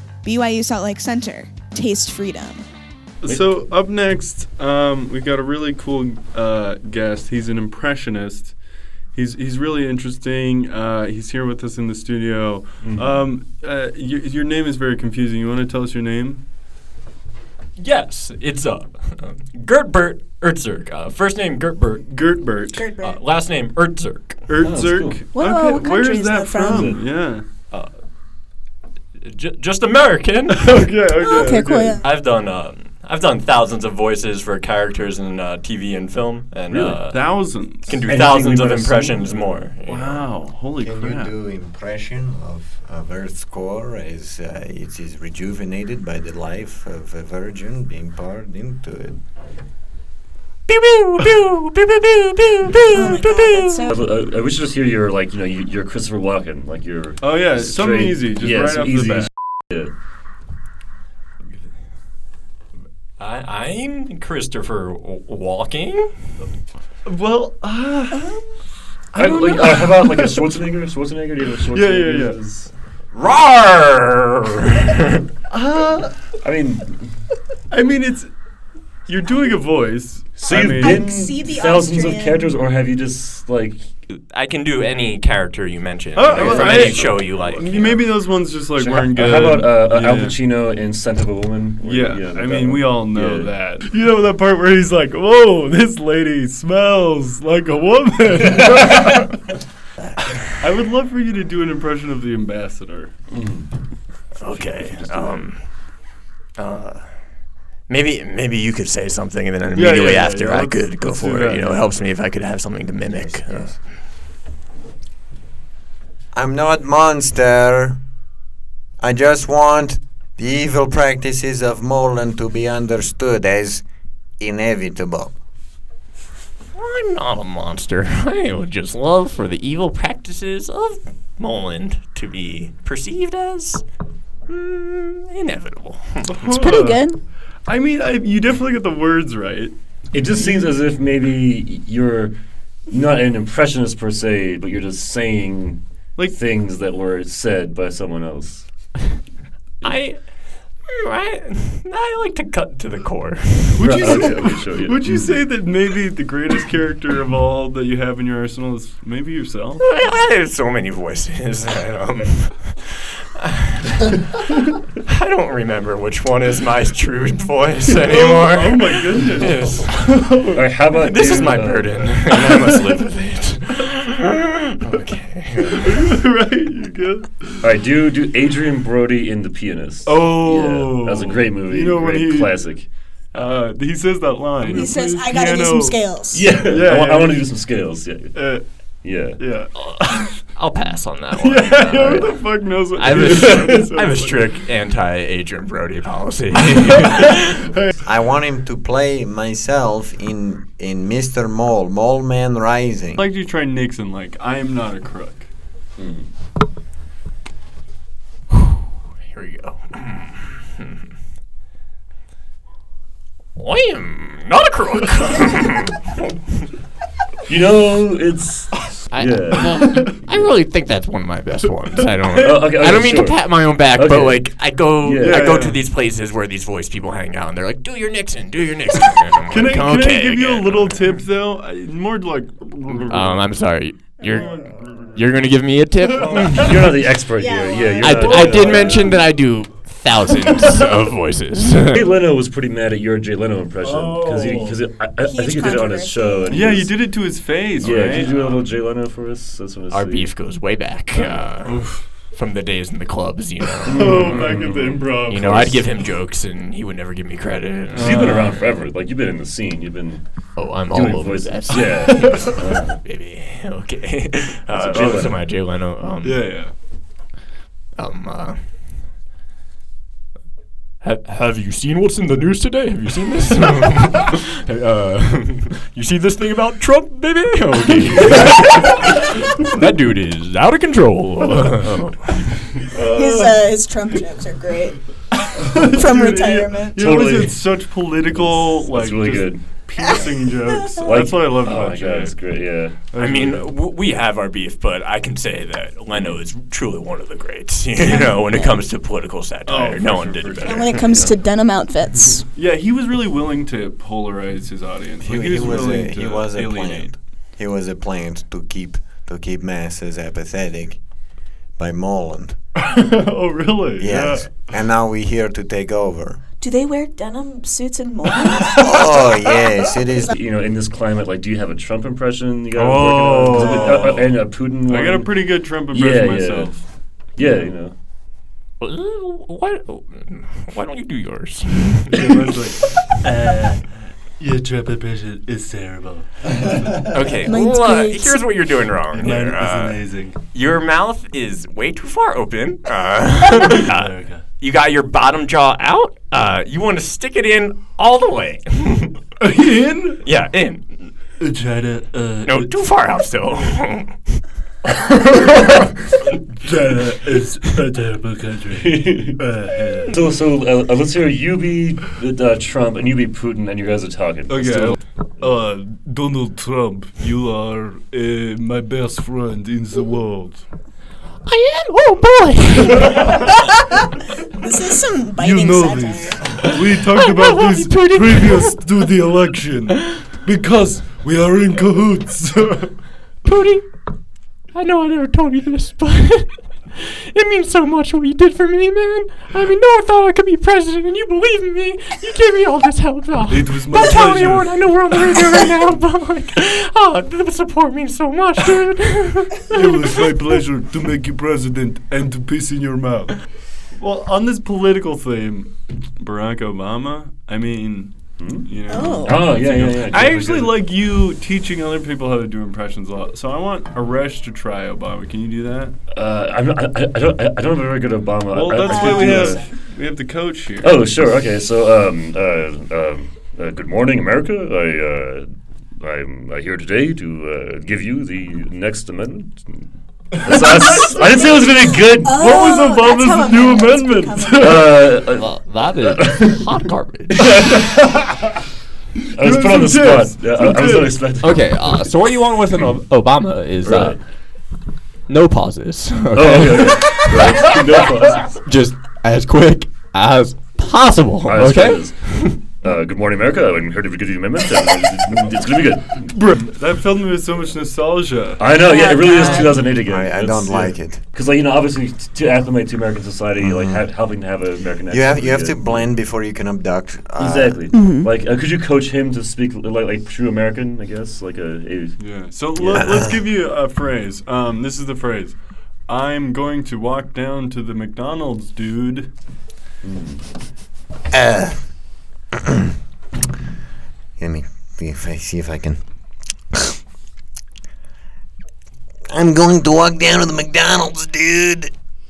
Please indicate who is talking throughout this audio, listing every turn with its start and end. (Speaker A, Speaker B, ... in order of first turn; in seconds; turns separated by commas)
Speaker A: 0.2-2.6, Speaker B: 3.2-16.4, Speaker C: 3.2-3.5, Speaker C: 12.8-13.2, Speaker D: 17.8-22.4, Speaker B: 22.0-22.9, Speaker E: 22.7-23.2, Speaker D: 23.0-24.6, Speaker B: 24.5-27.5, Speaker C: 24.6-25.2, Speaker E: 25.3-27.0, Speaker C: 26.6-27.1, Speaker D: 27.7-28.0, Speaker D: 29.2-31.5, Speaker B: 30.6-32.0, Speaker E: 31.2-32.0, Speaker D: 32.0-40.4, Speaker C: 36.7-37.1, Speaker B: 37.1-38.3, Speaker C: 38.1-39.5, Speaker B: 39.8-41.3, Speaker F: 40.8-49.2, Speaker D: 50.7-53.9, Speaker E: 52.9-54.0, Speaker C: 53.9-59.9, Speaker B: 57.2-59.6, Speaker D: 63.2-66.4, Speaker B: 67.0-68.4, Speaker B: 69.1-70.4, Speaker C: 69.1-72.7, Speaker B: 71.7-72.4, Speaker F: 73.1-73.5, Speaker D: 73.2-75.2, Speaker B: 75.5-76.4, Speaker C: 76.4-77.2, Speaker B: 77.7-78.4, Speaker B: 79.0-81.3, Speaker C: 80.4-83.9, Speaker E: 80.8-82.5, Speaker D: 84.1-88.4, Speaker B: 86.1-90.3, Speaker C: 86.3-87.5, Speaker C: 88.7-93.5, Speaker B: 91.8-99.3, Speaker D: 100.1-100.6, Speaker B: 100.4-103.2, Speaker C: 103.3-103.8, Speaker D: 104.3-113.9, Speaker B: 104.4-105.5, Speaker B: 109.7-111.9, Speaker F: 113.1-113.8, Speaker F: 116.3-118.0, Speaker F: 119.0-123.8, Speaker F: 124.4-125.3, Speaker D: 126.7-133.9, Speaker D: 134.4-136.4, Speaker B: 136.3-140.7, Speaker E: 136.5-137.2, Speaker C: 140.1-142.3, Speaker C: 142.9-148.9, Speaker D: 149.8-154.5, Speaker B: 153.7-159.8, Speaker C: 153.8-155.4, Speaker D: 159.8-164.1, Speaker D: 165.0-176.1, Speaker B: 168.0-170.6, Speaker C: 170.5-172.3, Speaker B: 171.2-172.8, Speaker B: 175.8-177.6, Speaker C: 177.6-182.9, Speaker B: 180.0-190.5, Speaker E: 184.7-186.4, Speaker C: 186.3-189.6, Speaker D: 190.5-197.6, Speaker B: 191.3-194.6, Speaker C: 193.2-193.8, Speaker F: 198.0-203.2, Speaker B: 203.2-205.5, Speaker C: 206.0-206.3, Speaker D: 209.2-210.9, Speaker D: 213.5-216.1, Speaker C: 217.5-220.2, Speaker D: 219.1-231.2, Speaker B: 219.8-220.2, Speaker C: 222.4-225.6, Speaker B: 225.2-225.8, Speaker B: 229.5-235.2, Speaker D: 233.1-237.1, Speaker E: 234.2-234.7, Speaker B: 236.0-236.9, Speaker C: 236.6-239.1, Speaker E: 237.3-239.2, Speaker D: 238.0-242.1, Speaker C: 241.9-250.3, Speaker B: 243.8-244.8, Speaker E: 245.2-246.8, Speaker B: 246.5-248.6, Speaker D: 247.8-248.5, Speaker D: 249.9-258.6, Speaker B: 251.1-252.3, Speaker C: 253.8-255.8, Speaker B: 253.9-255.8, Speaker B: 257.9-258.6, Speaker C: 257.9-263.0, Speaker D: 260.5-266.7, Speaker B: 261.7-262.7, Speaker B: 264.7-266.8, Speaker C: 264.8-265.4, Speaker D: 267.9-269.0, Speaker D: 271.0-282.8, Speaker B: 282.4-283.6, Speaker E: 283.1-287.2, Speaker B: 285.5-293.8, Speaker C: 286.9-290.3, Speaker E: 290.0-291.2, Speaker C: 291.0-293.0, Speaker D: 293.1-301.2, Speaker E: 298.0-298.8, Speaker B: 299.6-301.1, Speaker E: 300.6-302.5, Speaker B: 302.5-307.2, Speaker F: 305.2-312.6, Speaker B: 312.9-314.5, Speaker F: 314.0-316.4, Speaker E: 316.6-319.6, Speaker F: 318.7-320.3, Speaker C: 320.3-328.0, Speaker B: 322.7-327.8, Speaker D: 328.8-332.3, Speaker B: 332.1-337.1, Speaker D: 337.0-349.3, Speaker E: 337.4-338.4, Speaker B: 339.1-340.4, Speaker B: 343.6-344.4, Speaker B: 349.4-350.2, Speaker D: 350.2-351.4, Speaker B: 351.4-353.1, Speaker D: 352.4-354.4, Speaker B: 355.2-355.5, Speaker B: 356.6-360.2, Speaker C: 358.8-359.5, Speaker C: 360.1-365.5, Speaker B: 364.5-370.7, Speaker D: 371.4-373.3, Speaker E: 374.6-376.7, Speaker B: 375.4-383.1, Speaker D: 376.6-379.0, Speaker D: 379.9-380.4, Speaker D: 383.4-400.5, Speaker B: 393.5-395.6, Speaker B: 399.7-416.0, Speaker C: 408.4-410.8, Speaker E: 408.9-409.4, Speaker C: 416.1-419.6, Speaker B: 418.5-421.3, Speaker E: 418.9-419.7, Speaker C: 420.8-432.4, Speaker B: 430.4-431.4, Speaker E: 432.2-434.9, Speaker B: 432.3-435.1, Speaker C: 434.6-436.7, Speaker D: 435.1-437.8, Speaker C: 437.4-437.8, Speaker B: 437.6-438.1, Speaker C: 439.3-442.1, Speaker B: 439.4-441.4, Speaker D: 441.2-452.7, Speaker C: 443.8-444.6, Speaker C: 446.3-448.6, Speaker C: 451.4-456.4, Speaker B: 456.3-458.6, Speaker C: 458.6-466.1, Speaker E: 458.8-459.9, Speaker F: 459.9-461.2, Speaker F: 463.6-464.1, Speaker F: 465.1-467.9, Speaker C: 467.4-473.0, Speaker E: 467.9-468.2, Speaker A: 467.9-468.2, Speaker B: 472.2-479.3, Speaker F: 472.8-473.4, Speaker C: 480.0-480.4, Speaker F: 481.3-482.0, Speaker F: 484.4-486.8, Speaker F: 489.3-491.9